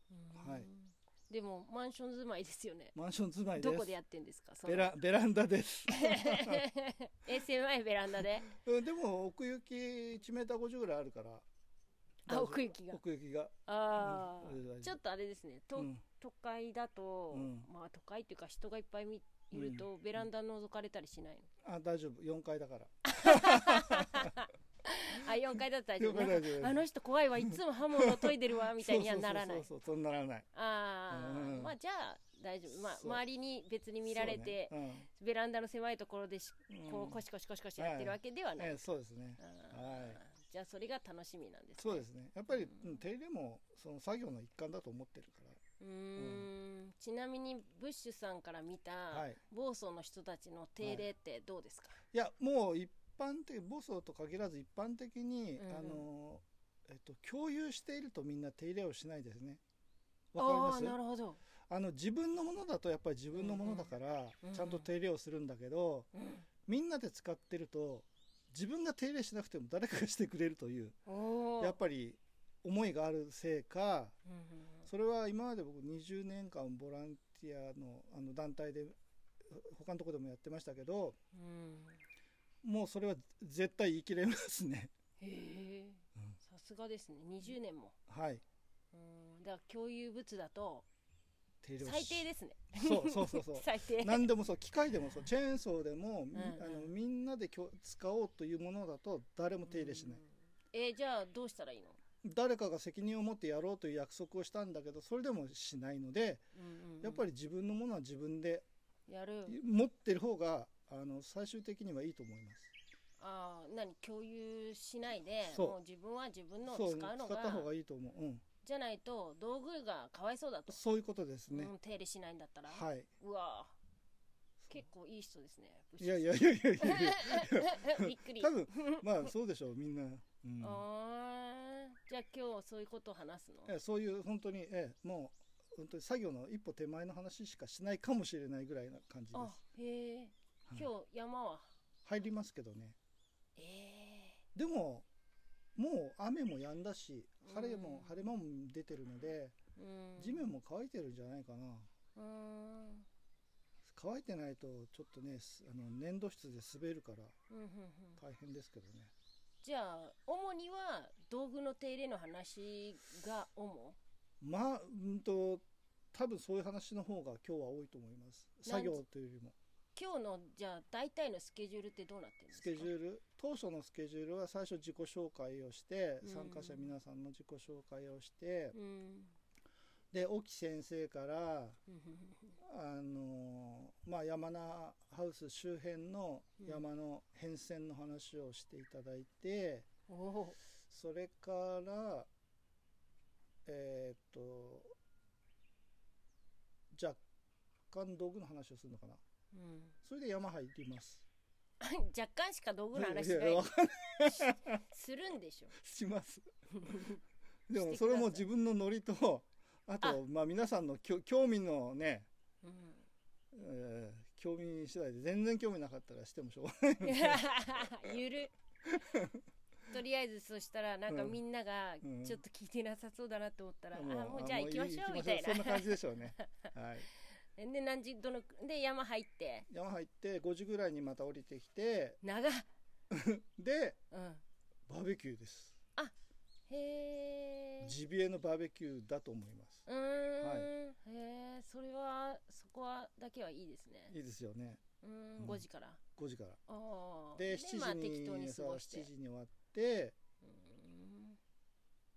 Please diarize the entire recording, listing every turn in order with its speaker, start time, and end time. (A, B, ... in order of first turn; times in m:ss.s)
0:00.1-0:02.9 A
0:00.3-0:00.7 B
0:02.9-0:03.9 B
0:03.6-0:04.9 A
0:04.6-0:06.7 B
0:05.9-0:08.5 A
0:08.2-0:11.4 B
0:12.2-0:15.0 B
0:12.3-0:13.0 A
0:13.6-0:21.5 A
0:15.8-0:16.0 B
0:17.3-0:17.7 B
0:19.5-0:19.8 B
0:21.6-0:24.3 B
0:23.1-0:29.7 A
0:25.2-0:26.8 B
0:27.5-0:30.4 B
0:30.5-0:38.9 A
0:31.1-0:31.7 B
0:32.7-0:33.2 B
0:34.0-0:35.1 B
0:36.7-0:37.2 B
0:37.8-0:40.2 B
0:39.4-0:42.9 A
0:41.8-0:45.6 B
0:45.8-0:52.0 A
0:46.2-0:46.5 B
0:49.1-0:49.4 B
0:50.8-0:51.1 B
0:52.1-0:59.6 B
0:55.6-0:56.0 A
1:00.3-1:01.0 B
1:00.4-1:01.4 A
1:01.7-1:06.1 B
1:03.3-1:04.9 A
1:06.1-1:06.4 A
1:06.7-1:11.0 B
1:11.1-1:11.8 A
1:11.6-1:14.2 B
1:14.3-1:14.9 A
1:14.8-1:21.2 B
1:21.3-1:22.0 A
1:22.6-1:24.9 B
1:25.2-1:27.9 A
1:28.1-1:28.4 B
1:28.9-1:30.8 A
1:31.6-1:40.2 B
1:31.8-1:34.3 A
1:36.3-1:36.9 A
1:39.7-1:42.0 A
1:42.2-1:46.4 B
1:46.5-1:47.2 A
1:47.0-1:48.6 B
1:49.1-1:49.6 A
1:49.4-1:52.7 B
1:53.2-1:57.7 A
1:55.4-1:55.8 B
1:56.7-1:58.4 B
1:58.6-2:00.8 A
2:00.7-2:01.7 B
2:01.5-2:03.7 A
2:02.7-2:03.1 B
2:04.7-2:09.3 A
2:06.0-2:10.8 B
2:10.6-2:13.7 A
2:13.6-2:19.5 B
2:19.3-2:21.7 A
2:22.0-2:23.0 B
2:23.6-2:24.4 A
2:24.5-2:25.1 B
2:25.8-2:29.6 B
2:27.4-2:28.3 A
2:29.8-2:30.5 A
2:30.2-2:31.9 B
2:32.2-2:33.1 A
2:33.9-2:37.3 B
2:37.5-2:38.2 A
2:38.2-2:39.1 B
2:39.6-2:44.0 A
2:44.4-2:49.5 B
2:48.6-2:49.0 A
2:49.9-2:52.9 A
2:52.5-2:58.8 B
2:56.2-2:56.9 A
2:58.7-2:59.3 A
3:00.1-3:01.8 B
3:01.9-3:02.5 A
3:02.6-3:09.9 B
3:10.1-3:10.6 A
3:10.9-3:12.3 B
3:13.6-3:14.9 B
3:16.9-3:17.2 B
3:17.9-3:19.2 B
3:19.5-3:19.9 A
3:20.0-3:21.2 B
3:21.8-3:23.7 A
3:22.9-3:24.8 B
3:24.2-3:25.7 A
3:25.7-3:27.1 B
3:26.8-3:27.2 A
3:27.7-3:32.3 B
3:27.7-3:28.4 A
3:32.6-3:33.0 A
3:33.5-3:38.2 B
3:37.0-3:38.5 A
3:38.8-3:39.4 B
3:39.9-3:46.7 A
3:41.1-3:41.4 B
3:42.0-3:42.4 B
3:43.9-3:47.1 B
3:47.6-3:49.7 A
3:49.7-3:52.2 B
3:52.2-3:52.7 A
3:53.1-3:54.0 B
3:54.1-3:54.4 A
3:54.9-3:55.8 B
3:56.7-3:57.9 A
3:57.8-3:59.8 B
3:59.9-4:04.2 A
4:00.4-4:00.7 B
4:04.1-4:04.8 B
4:05.0-4:06.0 A
4:05.4-4:05.6 B
4:06.2-4:06.6 B
4:06.7-4:09.1 A
4:07.4-4:10.1 B
4:10.4-4:11.4 A